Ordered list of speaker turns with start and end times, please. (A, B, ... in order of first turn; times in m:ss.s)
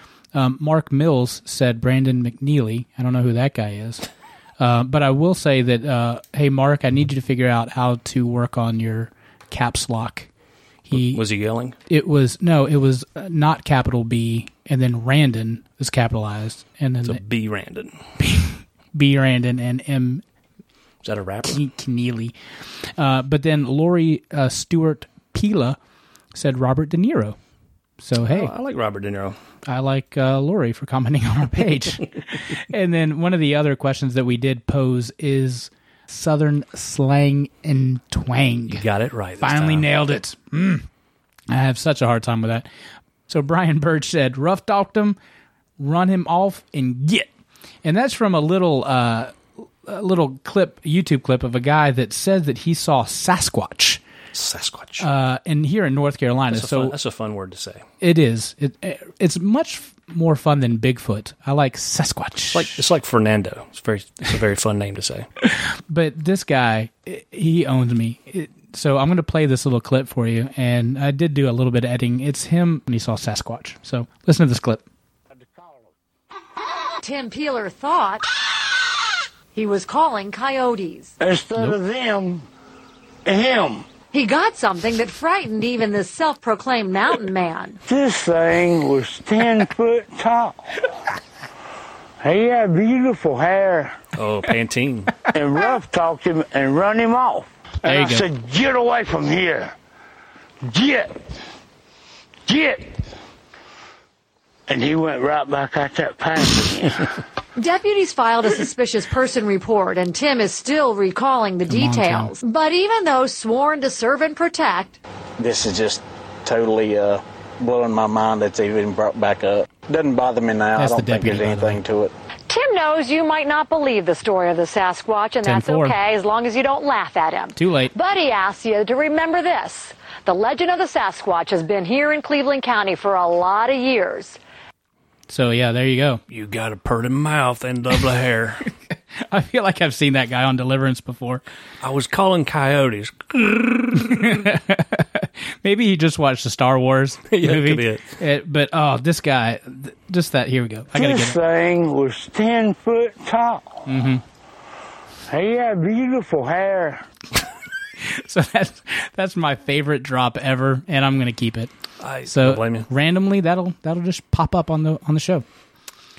0:00.3-0:04.1 A
0:04.6-0:10.3 A
0:10.9-0:11.2 A
0:10.9-0:11.8 B
0:11.9-0:17.2 A
0:17.0-0:18.0 B
0:18.2-0:20.2 A
0:21.0-0:21.6 B
0:21.5-0:22.3 A
0:23.0-0:25.8 A
0:26.4-0:27.4 A
0:28.0-0:28.5 A
0:28.2-0:29.4 B
0:29.7-0:38.8 A
0:38.7-0:39.9 B
0:39.4-0:40.9 A
0:41.5-0:42.7 A
0:43.3-0:45.2 A
0:45.8-0:47.3 A
0:47.8-0:54.0 A
0:54.3-0:55.1 B
0:55.0-0:57.0 A
0:56.5-0:57.8 B
0:58.0-1:02.8 A
1:02.5-1:05.3 B
1:05.9-1:14.8 A
1:15.4-1:15.9 C
1:17.0-1:18.3 D
1:19.5-1:21.2 D
1:21.2-1:22.5 C
1:23.3-1:23.9 C
1:24.1-1:27.8 D
1:27.9-1:30.8 C
1:32.2-1:34.0 C
1:34.2-1:35.2 B
1:35.3-1:39.8 C
1:37.8-1:38.3 A
1:40.6-1:41.3 C
1:42.5-1:43.0 C
1:44.7-1:47.1 C
1:47.6-1:55.0 D
1:51.7-1:52.3 A
1:55.4-2:02.1 E
2:00.8-2:01.8 A
2:02.5-2:14.4 D
2:05.4-2:06.0 A
2:07.6-2:07.9 A
2:15.3-2:16.2 A
2:16.3-2:18.7 B
2:19.2-2:21.4 A
2:21.8-2:24.5 B
2:24.0-2:31.4 A
2:27.3-2:28.1 B
2:30.9-2:33.8 C
2:33.9-2:34.2 A
2:35.3-2:37.1 C
2:38.0-2:41.7 A
2:42.0-2:42.9 B
2:42.2-2:45.4 A